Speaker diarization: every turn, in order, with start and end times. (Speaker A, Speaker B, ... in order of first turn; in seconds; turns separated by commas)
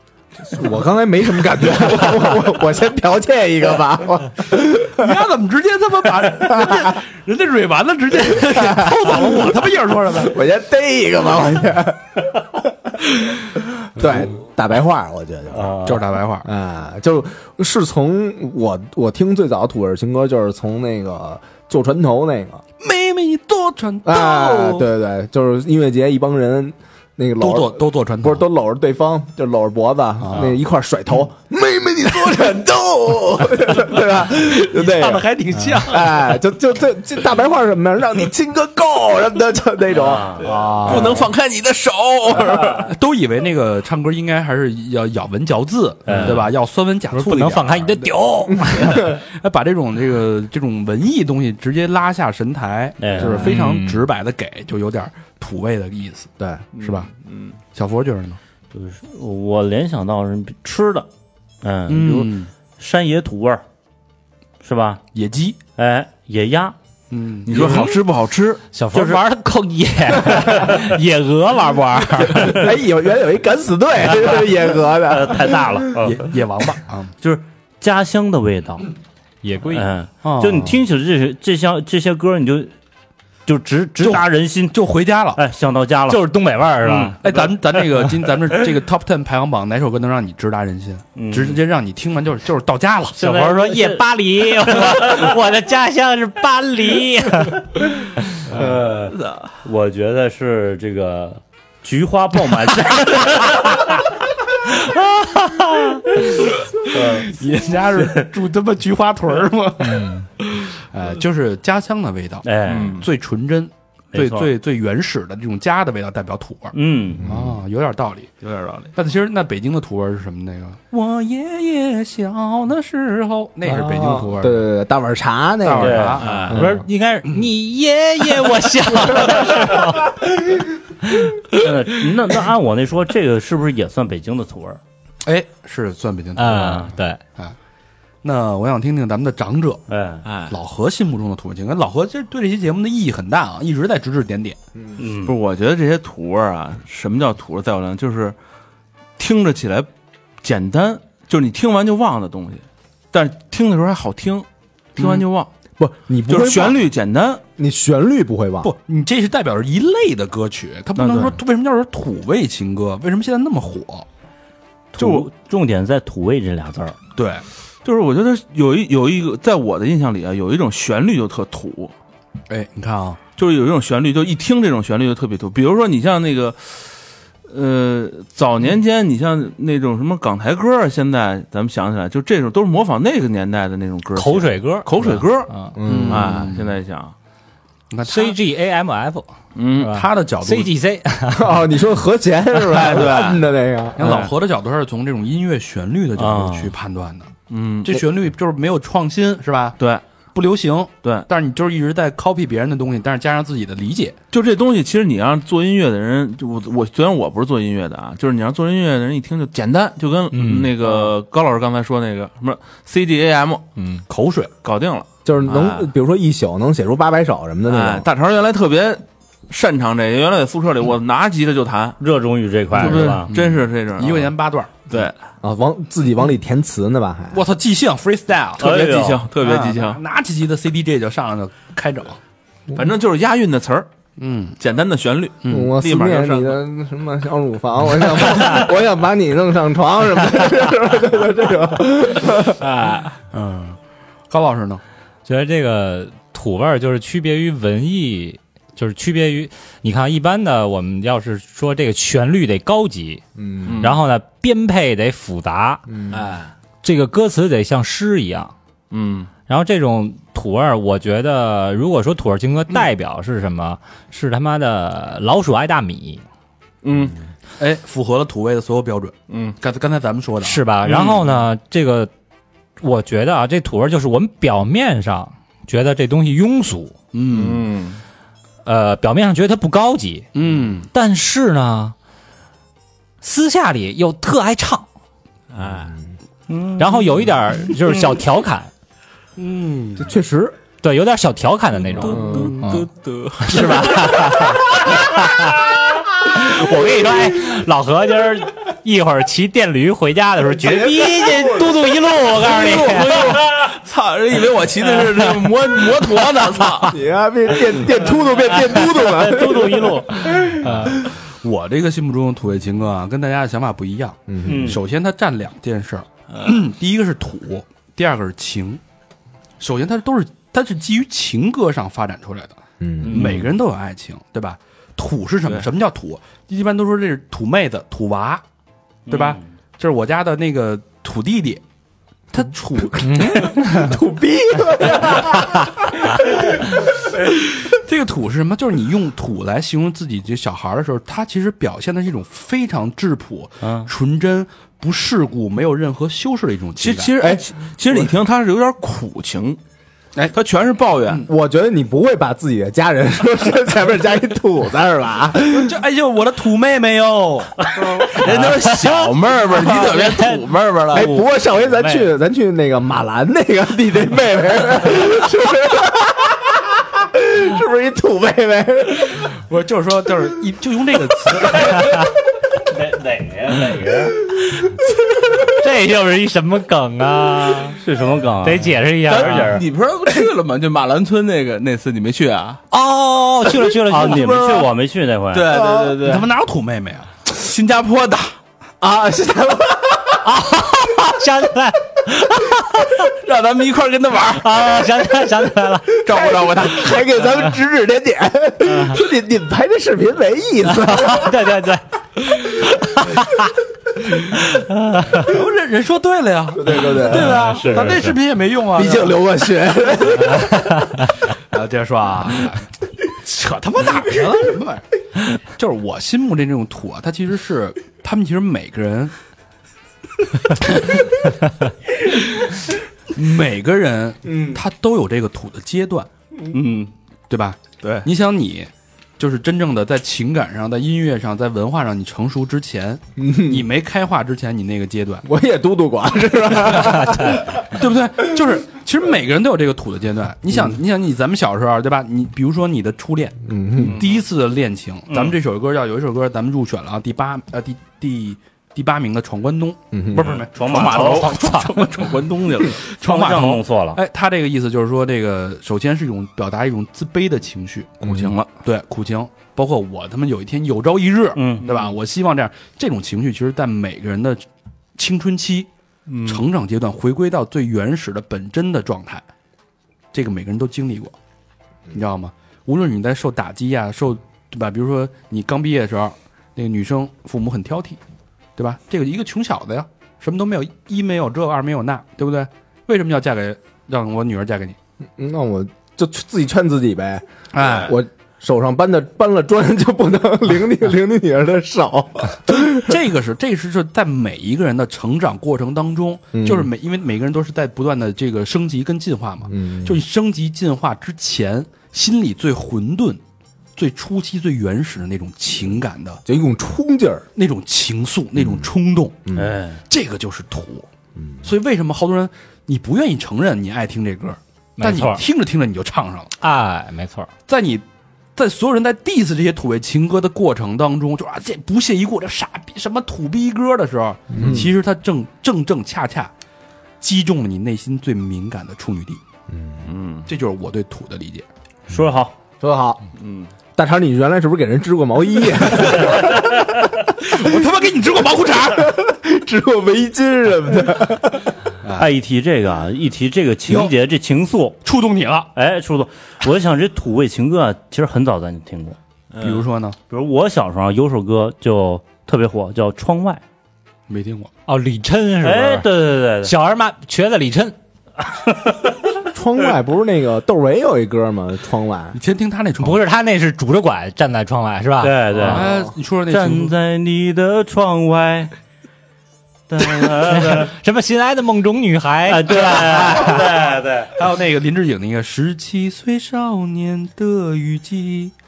Speaker A: 0.4-5.2, Speaker B: 4.9-10.4, Speaker A: 6.2-7.0, Speaker A: 8.4-13.0, Speaker A: 13.9-22.6, Speaker B: 14.0-14.3, Speaker C: 15.5-16.0, Speaker B: 15.8-16.5, Speaker B: 22.8-24.9, Speaker A: 24.0-41.1, Speaker B: 27.4-28.4, Speaker B: 30.2-30.6, Speaker B: 34.7-36.1, Speaker C: 39.9-40.4, Speaker B: 40.4-41.3, Speaker D: 40.8-42.9, Speaker B: 42.8-48.1, Speaker C: 46.0-46.5, Speaker E: 47.1-49.1, Speaker B: 48.7-57.1, Speaker C: 53.0-53.5, Speaker E: 53.4-54.0, Speaker D: 56.8-57.6, Speaker B: 57.7-58.4, Speaker C: 58.7-61.1, Speaker C: 61.6-63.6, Speaker B: 61.9-62.5, Speaker C: 64.6-65.0, Speaker B: 65.1-65.6, Speaker C: 65.8-66.8, Speaker B: 67.1-68.0, Speaker D: 67.5-68.6, Speaker E: 68.7-72.6, Speaker C: 68.9-69.2, Speaker A: 72.4-75.8, Speaker C: 74.0-76.3, Speaker B: 76.0-77.1, Speaker C: 77.2-78.9, Speaker E: 79.4-79.8, Speaker C: 79.7-82.7, Speaker B: 80.2-80.8, Speaker C: 83.5-84.7, Speaker B: 84.0-85.4, Speaker C: 85.3-86.2, Speaker E: 86.1-87.4, Speaker C: 86.8-87.5, Speaker B: 87.2-93.3, Speaker C: 91.2-91.6, Speaker E: 93.2-97.6, Speaker C: 93.2-95.3, Speaker C: 98.5-104.0, Speaker D: 99.1-99.5, Speaker C: 104.7-106.0, Speaker C: 106.8-107.3, Speaker B: 107.2-118.3, Speaker C: 112.4-113.0, Speaker D: 112.7-113.1, Speaker C: 114.1-114.5, Speaker C: 116.7-117.2, Speaker D: 118.4-118.9, Speaker B: 118.9-124.7, Speaker A: 123.6-126.8, Speaker B: 125.6-126.5, Speaker C: 125.8-126.2, Speaker D: 126.2-126.6, Speaker E: 126.5-130.1, Speaker C: 131.5-134.8, Speaker B: 135.2-137.6, Speaker E: 136.3-137.2, Speaker B: 138.2-139.8, Speaker C: 139.9-140.2, Speaker D: 140.2-140.6, Speaker B: 140.5-144.6, Speaker C: 145.0-145.3, Speaker D: 145.2-148.3, Speaker D: 149.2-149.9, Speaker D: 150.4-154.4, Speaker B: 155.0-155.2, Speaker D: 155.0-155.5, Speaker A: 155.8-156.8, Speaker D: 156.3-157.4, Speaker A: 157.6-158.7, Speaker B: 158.6-164.1, Speaker D: 160.9-161.4, Speaker B: 165.0-165.2, Speaker C: 165.0-166.9, Speaker B: 167.2-167.4, Speaker D: 167.8-171.9, Speaker B: 172.5-173.2, Speaker D: 173.4-176.9, Speaker D: 177.5-187.1, Speaker E: 184.1-184.9, Speaker B: 185.0-186.7, Speaker A: 185.8-186.4, Speaker B: 187.9-188.4, Speaker E: 188.0-191.6, Speaker D: 189.5-190.0, Speaker B: 189.9-190.7, Speaker A: 191.3-194.0, Speaker D: 192.6-193.4, Speaker B: 194.0-197.3, Speaker C: 194.0-194.3, Speaker C: 196.2-196.7, Speaker D: 197.5-198.0, Speaker B: 197.8-199.8, Speaker D: 199.8-200.0, Speaker B: 200.3-204.2, Speaker D: 204.3-213.6, Speaker E: 210.3-210.8, Speaker B: 214.1-214.5, Speaker D: 214.6-215.8, Speaker A: 215.2-218.1, Speaker D: 217.7-222.0, Speaker C: 222.0-223.3, Speaker D: 222.7-224.3, Speaker B: 222.8-224.8, Speaker D: 224.9-225.1, Speaker A: 225.4-227.4, Speaker B: 227.3-232.2, Speaker C: 228.6-229.2, Speaker D: 228.6-230.0, Speaker D: 232.7-233.9, Speaker B: 234.2-234.6, Speaker D: 234.6-236.6, Speaker B: 235.4-235.7, Speaker A: 235.5-242.6, Speaker D: 242.8-243.0, Speaker B: 243.2-243.8, Speaker B: 244.3-244.8, Speaker E: 245.2-253.2, Speaker A: 253.4-253.8, Speaker D: 253.6-254.0, Speaker E: 253.8-255.8, Speaker A: 255.9-256.2, Speaker D: 256.1-256.5, Speaker E: 256.8-258.5, Speaker D: 258.9-259.3, Speaker E: 259.5-266.2, Speaker D: 266.8-267.2, Speaker B: 267.6-270.6, Speaker D: 269.3-269.6, Speaker E: 270.4-272.1, Speaker D: 270.9-271.2, Speaker E: 272.8-276.9, Speaker B: 277.1-277.7, Speaker D: 277.3-278.0, Speaker E: 278.6-280.3, Speaker B: 280.3-280.9, Speaker E: 280.9-281.9, Speaker E: 283.2-284.9, Speaker D: 285.5-285.9, Speaker E: 286.8-288.7, Speaker B: 289.4-290.1, Speaker A: 290.0-290.6, Speaker E: 290.8-292.8, Speaker D: 292.0-294.6, Speaker A: 292.1-292.5, Speaker E: 293.4-303.4, Speaker A: 301.2-301.5, Speaker D: 302.3-307.0, Speaker A: 306.9-310.8, Speaker C: 308.2-310.0, Speaker E: 309.2-310.3, Speaker B: 310.6-318.8, Speaker A: 314.3-314.8, Speaker C: 314.4-314.8, Speaker D: 316.3-316.6, Speaker B: 319.6-328.4, Speaker A: 322.8-323.3, Speaker D: 323.1-323.5, Speaker C: 329.1-329.4, Speaker B: 329.1-331.6, Speaker B: 332.3-333.5, Speaker A: 332.8-335.7, Speaker E: 333.6-333.9, Speaker B: 337.6-347.1, Speaker C: 343.6-343.9, Speaker D: 346.8-349.6, Speaker D: 350.3-351.2, Speaker A: 351.2-355.7, Speaker B: 355.5-358.0, Speaker D: 358.0-361.1, Speaker E: 358.6-359.0, Speaker E: 359.6-360.4, Speaker A: 360.9-369.2, Speaker E: 360.9-362.1, Speaker B: 369.5-372.0, Speaker C: 372.7-374.2, Speaker E: 375.5-377.8, Speaker C: 377.8-379.6, Speaker E: 378.4-379.6, Speaker D: 379.1-382.6, Speaker E: 382.7-384.6, Speaker C: 383.9-385.6, Speaker D: 384.1-384.6, Speaker D: 385.3-386.3, Speaker A: 385.6-386.0, Speaker B: 386.0-387.1, Speaker D: 387.3-388.3, Speaker A: 388.8-390.2, Speaker E: 390.2-393.0, Speaker D: 393.2-394.8, Speaker E: 394.4-395.9, Speaker D: 396.0-397.1, Speaker A: 396.1-401.5, Speaker E: 400.7-401.8, Speaker E: 402.8-403.4, Speaker B: 405.2-409.2, Speaker A: 406.5-407.5, Speaker E: 407.3-408.1, Speaker C: 407.8-408.0, Speaker A: 408.7-410.6, Speaker B: 411.5-414.8, Speaker B: 415.4-419.1, Speaker B: 420.6-421.0, Speaker B: 423.1-426.1, Speaker A: 424.2-424.6, Speaker B: 427.3-435.2, Speaker D: 427.8-428.1, Speaker A: 433.2-433.7, Speaker A: 435.2-437.5, Speaker B: 436.9-451.2, Speaker A: 443.4-444.0, Speaker C: 445.1-445.3, Speaker A: 449.9-450.3, Speaker C: 450.5-451.3, Speaker D: 450.6-452.8, Speaker E: 450.9-451.8, Speaker B: 452.9-464.4, Speaker C: 453.0-454.0, Speaker A: 458.0-458.4, Speaker C: 461.4-461.6, Speaker B: 464.9-465.7, Speaker D: 466.1-466.4, Speaker B: 466.2-469.2, Speaker B: 470.1-471.1, Speaker B: 471.9-478.0, Speaker B: 478.6-484.8, Speaker A: 485.2-493.0, Speaker B: 487.5-487.9, Speaker B: 492.5-503.2, Speaker A: 496.3-496.7, Speaker A: 499.5-500.0, Speaker B: 503.8-506.2, Speaker A: 506.2-507.2, Speaker B: 507.4-509.2, Speaker A: 508.4-508.7, Speaker A: 509.3-509.5, Speaker C: 509.3-509.8, Speaker B: 509.9-510.9, Speaker A: 511.2-511.4, Speaker B: 511.4-516.3, Speaker E: 514.8-515.2, Speaker E: 516.4-517.3, Speaker B: 517.5-517.8, Speaker B: 518.4-526.3, Speaker A: 524.3-524.7, Speaker B: 527.0-529.2, Speaker A: 529.5-529.8, Speaker D: 529.8-530.3, Speaker B: 530.3-531.4, Speaker C: 531.9-532.3, Speaker A: 532.6-533.0, Speaker D: 533.2-533.5, Speaker A: 533.7-536.5, Speaker B: 537.2-539.0, Speaker A: 538.8-541.5, Speaker B: 541.8-542.1, Speaker C: 542.0-544.8, Speaker B: 543.7-543.9, Speaker B: 544.8-545.5, Speaker C: 545.5-549.0, Speaker D: 549.3-549.6, Speaker B: 549.4-550.0, Speaker C: 550.1-553.4, Speaker B: 554.1-554.5, Speaker E: 554.7-555.9, Speaker C: 555.4-556.5, Speaker E: 556.4-557.8, Speaker A: 559.2-562.2, Speaker B: 562.1-563.0, Speaker E: 562.8-565.5, Speaker C: 565.0-565.7, Speaker B: 565.4-566.7, Speaker C: 566.3-568.5, Speaker C: 569.7-570.7, Speaker E: 570.3-573.4, Speaker C: 572.3-574.1, Speaker B: 574.1-578.3